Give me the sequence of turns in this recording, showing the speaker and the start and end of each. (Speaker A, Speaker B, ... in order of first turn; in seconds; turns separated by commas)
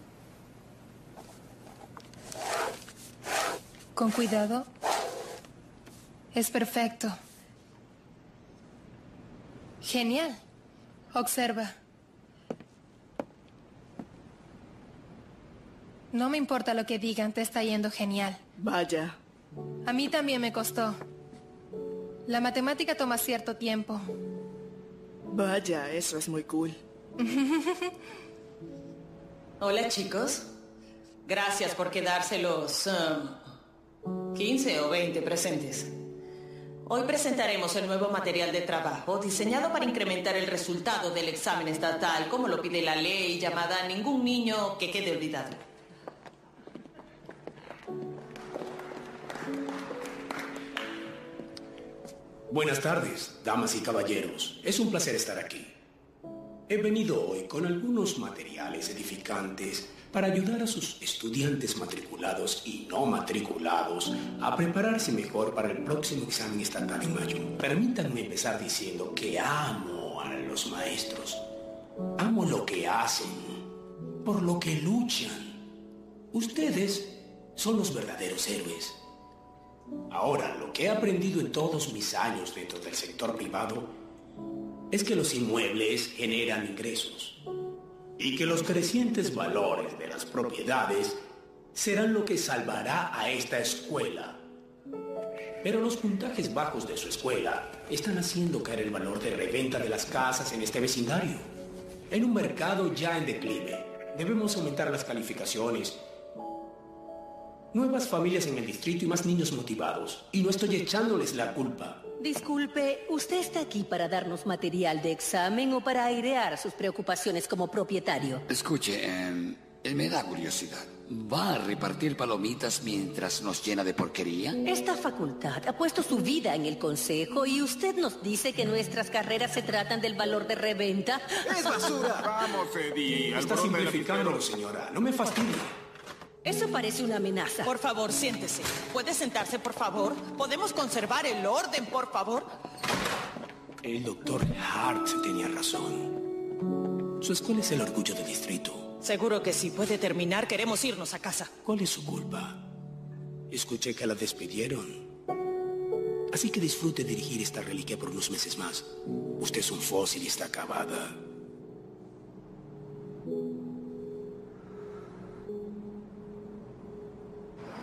Speaker A: 4.0-4.7, Speaker A: 6.3-7.1, Speaker A: 9.8-10.4, Speaker A: 11.1-11.7, Speaker A: 16.1-18.4, Speaker B: 18.6-19.1, Speaker A: 19.8-20.9, Speaker A: 22.3-24.0, Speaker B: 25.3-26.7, Speaker A: 27.2-27.9, Speaker C: 29.6-30.5, Speaker C: 31.2-33.4, Speaker C: 34.3-35.9, Speaker C: 36.9-45.6, Speaker D: 52.5-55.7, Speaker D: 56.7-71.4, Speaker D: 72.2-73.6, Speaker D: 74.2-75.6, Speaker D: 76.3-79.0, Speaker D: 80.1-83.9, Speaker D: 84.9-87.4, Speaker D: 88.2-91.2, Speaker D: 91.7-94.4, Speaker D: 95.6-101.5, Speaker D: 102.1-106.0, Speaker D: 107.7-112.0, Speaker E: 112.2-118.4, Speaker F: 118.5-124.6, Speaker E: 124.6-131.9, Speaker D: 133.2-135.8, Speaker E: 136.4-137.7, Speaker C: 137.6-142.5, Speaker D: 143.8-146.2, Speaker D: 147.2-148.9, Speaker C: 149.0-151.5, Speaker D: 151.6-152.7, Speaker D: 153.5-155.1, Speaker D: 156.3-161.2